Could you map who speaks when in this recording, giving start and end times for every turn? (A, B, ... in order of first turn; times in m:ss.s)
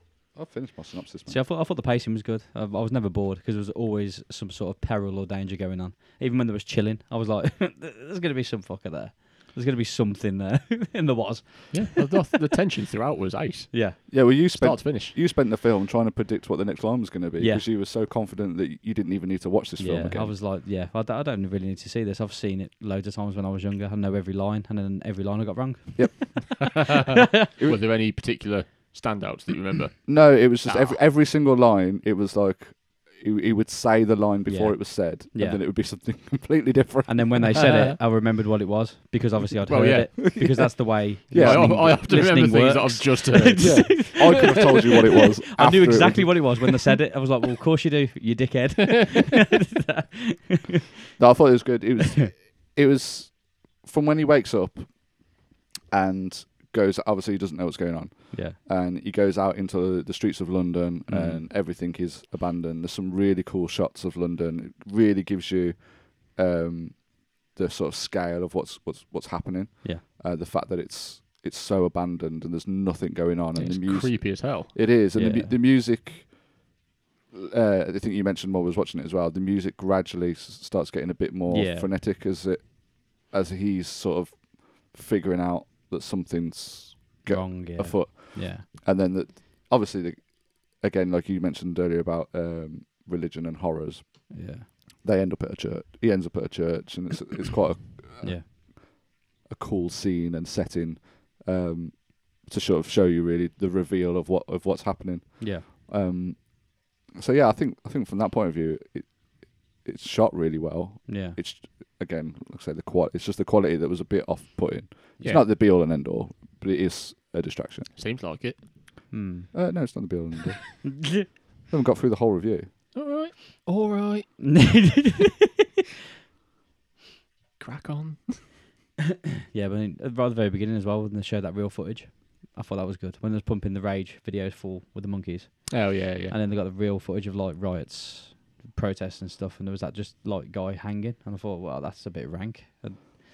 0:00.4-0:01.4 A
0:01.3-0:12.1 B
0:11.7-0:15.2 C
0:13.7-0:14.0 B
0:14.1-0:20.4 A
0:17.4-0:17.6 B
0:19.8-0:26.7 B
0:26.0-0:26.8 A
0:26.9-0:31.0 C
0:30.1-0:37.7 A
0:34.4-0:35.6 B
0:37.1-0:50.8 B
0:37.5-0:38.0 C
0:39.7-0:40.7 C
0:41.3-0:42.0 A
0:41.3-0:44.7 C
0:43.6-0:46.6 A
0:51.2-1:16.6 A
0:58.3-0:58.6 B
1:01.1-1:01.4 B
1:13.6-1:14.8 C
1:15.1-1:15.6 B
1:17.3-1:57.9 A
1:21.5-1:21.9 B
1:27.2-1:28.6 B
1:34.3-1:34.7 B
1:38.2-1:38.5 B
1:45.4-1:45.7 B
1:51.1-1:51.4 B
1:58.0-1:58.7 C
1:59.1-2:00.0 B
1:59.5-2:02.7 A
2:00.8-2:01.3 B
2:02.9-2:05.1 C
2:04.4-2:05.2 B
2:07.6-2:08.5 C
2:09.5-2:23.1 B
2:15.7-2:16.4 C